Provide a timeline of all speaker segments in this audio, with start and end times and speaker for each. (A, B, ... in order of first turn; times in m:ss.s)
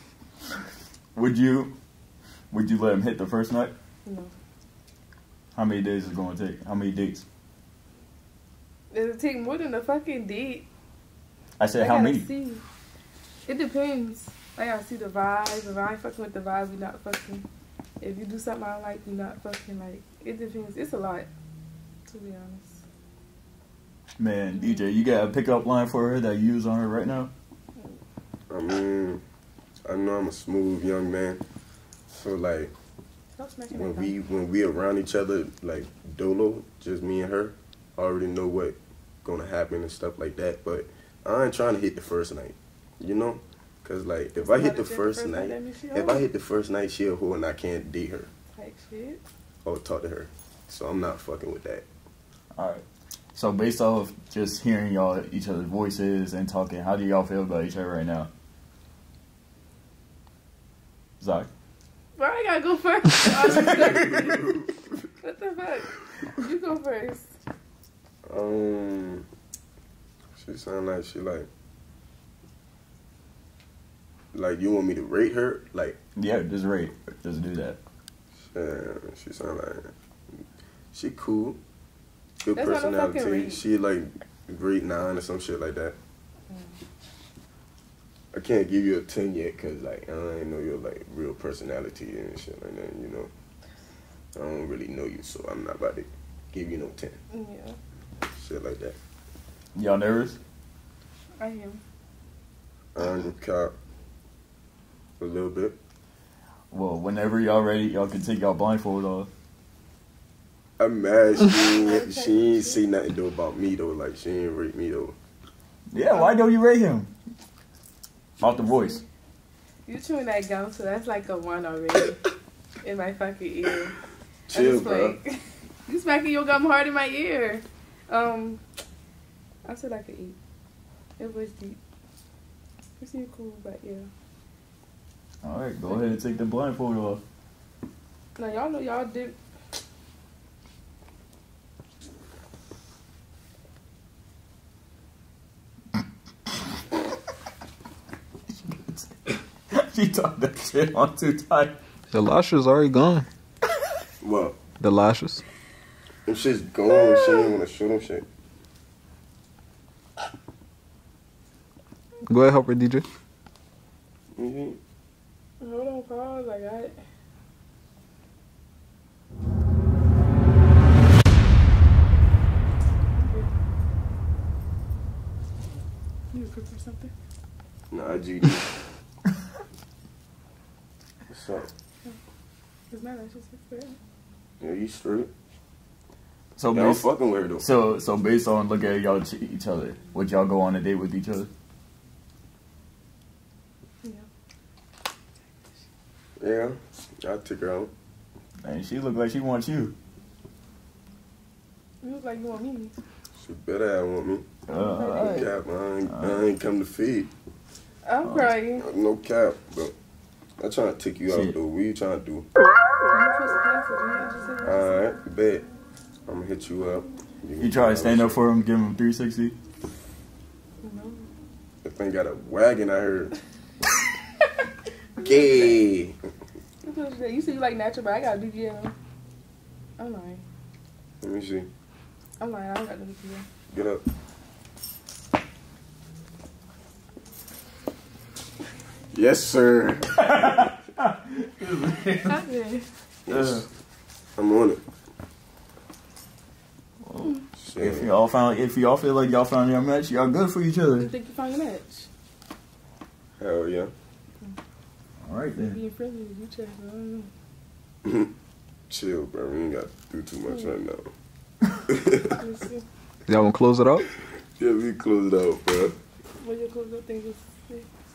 0:01.1-0:01.7 A
0:02.5-0:03.7 A
0:04.0-0:04.3 B
0:05.5-0:07.2 A
0:08.9-0:10.7 B
0:11.6-0:12.3 A
0:11.8-0:12.6 B
0:13.5-0:17.4 B
0:18.0-0:21.3 B
0:22.1-0:22.8 B
0:24.2-0:27.3 A
0:24.5-0:24.8 B
0:28.5-0:29.2 C
0:29.9-0:31.4 C
0:32.1-0:32.7 C
0:33.4-0:34.1 B
0:33.7-0:48.3 C
0:44.4-0:46.2 B
0:48.5-0:49.2 B
0:49.6-0:51.8 C
0:52.6-0:58.3 A
1:01.2-1:01.5 A
1:02.2-1:04.5 B
1:03.4-1:04.3 A
1:05.2-1:07.3 B
1:08.3-1:09.2 C
1:10.4-1:11.5 C
1:14.3-1:16.0 C
1:16.2-1:17.8 A
1:18.5-1:19.9 C
1:20.9-1:21.6 C
1:22.4-1:25.9 C
1:22.6-1:23.6 B
1:26.5-1:26.8 B
1:28.3-1:33.3 C
1:34.3-1:37.2 C
1:37.3-1:37.8 B
1:38.3-1:39.0 C
1:39.7-1:40.4 A
1:41.4-1:41.8 B
1:42.9-1:43.7 C
1:45.2-1:45.7 C
1:46.7-1:49.3 A
1:50.8-1:55.1 C
1:51.5-1:52.8 B
1:55.9-1:57.1 A
1:56.1-1:56.4 B
1:58.4-1:59.0 A
1:58.5-1:59.0 B
1:59.9-2:02.2 B
2:02.8-2:04.0 B
2:04.5-2:05.2 C
2:04.5-2:08.6 B
2:09.6-2:10.4 B
2:11.2-2:11.8 B
2:13.0-2:14.1 B
2:15.4-2:17.2 A
2:15.9-2:16.2 B
2:18.4-2:19.4 B
2:28.6-2:31.8 A
2:32.1-2:33.3 D
2:34.2-2:34.6 C
2:34.8-2:35.4 D
2:36.2-2:38.2 C
2:37.0-2:37.4 B
2:42.3-2:43.0 D
2:44.4-2:44.8 C
2:45.6-2:47.0 B
2:53.2-2:53.5 B
2:56.3-2:57.1 B
2:57.9-2:58.7 C
3:01.3-3:01.7 C
3:02.9-3:04.0 B
3:04.6-3:05.3 C
3:06.6-3:11.5 A
3:06.7-3:07.6 C
3:16.4-3:17.9 C
3:18.6-3:19.9 A
3:22.0-3:22.9 B
3:23.4-3:24.4 C
3:24.7-3:25.5 A
3:24.7-3:25.5 B
3:25.2-3:27.3 C
3:26.0-3:26.4 A
3:28.0-3:28.8 B
3:28.2-3:28.5 A
3:28.8-3:29.9 C
3:30.6-3:32.4 C
3:31.2-3:31.6 A
3:33.1-3:35.1 B
3:34.6-3:35.7 C
3:36.3-3:38.5 C
3:37.6-3:39.6 A
3:40.8-3:41.3 B
3:41.8-3:43.3 C
3:45.2-3:45.8 B
3:45.2-3:46.2 C
3:46.8-3:48.9 B
3:50.0-3:50.4 B
3:51.2-3:51.7 C
3:52.4-3:53.4 B
3:53.7-3:54.0 C
3:59.1-4:00.5 C
4:00.2-4:02.4 A
4:02.2-4:02.9 B
4:03.2-4:03.6 C
4:03.3-4:03.6 A
4:04.4-4:04.8 C
4:07.0-4:11.1 A
4:07.6-4:08.1 C
4:11.0-4:12.1 B
4:13.4-4:13.9 C
4:15.2-4:15.8 A
4:15.6-4:17.3 B
4:18.9-4:21.1 C
4:20.5-4:20.7 B
4:21.9-4:22.4 C
4:22.4-4:22.8 B
4:23.3-4:24.0 D
4:24.6-4:25.9 C
4:26.4-4:27.9 B